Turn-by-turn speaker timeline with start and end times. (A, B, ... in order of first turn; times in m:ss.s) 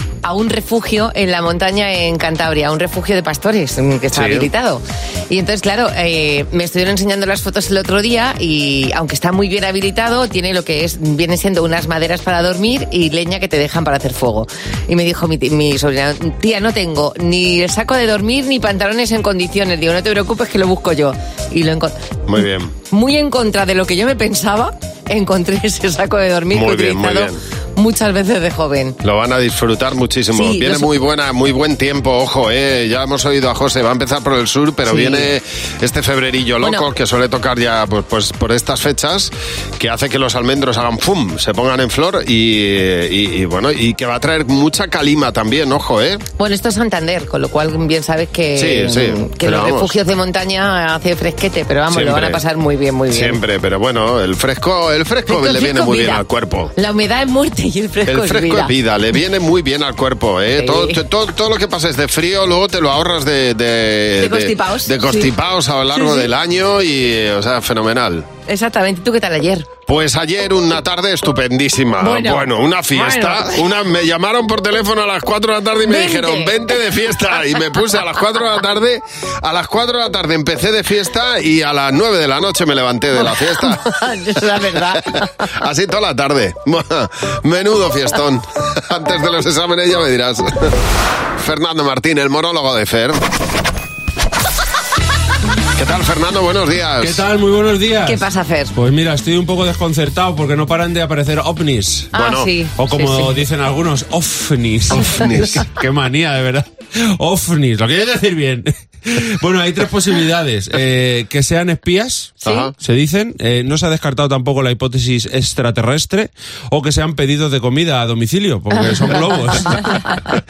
0:00.2-0:29.0 A
0:04.1-0:04.5 B
0:22.3-0:22.7 B
0:26.5-0:27.4 B
0:29.0-0:46.2 B
0:30.3-0:30.9 A
0:34.8-0:35.3 A
0:36.6-0:36.9 A
0:46.4-0:53.4 A
0:48.6-0:49.9 B
0:51.9-0:52.4 B
0:53.1-0:56.7 B
0:55.3-0:56.2 A
0:56.8-0:58.7 A
0:58.1-1:08.3 B
1:00.6-1:01.0 A
1:04.2-1:05.3 A
1:05.9-1:06.3 A
1:08.5-1:09.7 A
1:09.9-1:23.8 B
1:12.0-1:13.6 A
1:15.8-1:16.6 A
1:23.2-1:25.0 A
1:25.6-1:30.7 B
1:31.4-1:33.2 B
1:35.8-1:37.2 B
1:37.0-1:42.2 C
1:38.0-1:38.7 A
1:42.1-1:43.4 A
1:42.2-1:42.5 B
1:42.8-2:00.0 C
1:44.9-1:45.6 B
1:52.4-1:52.7 A
1:52.4-1:52.7 B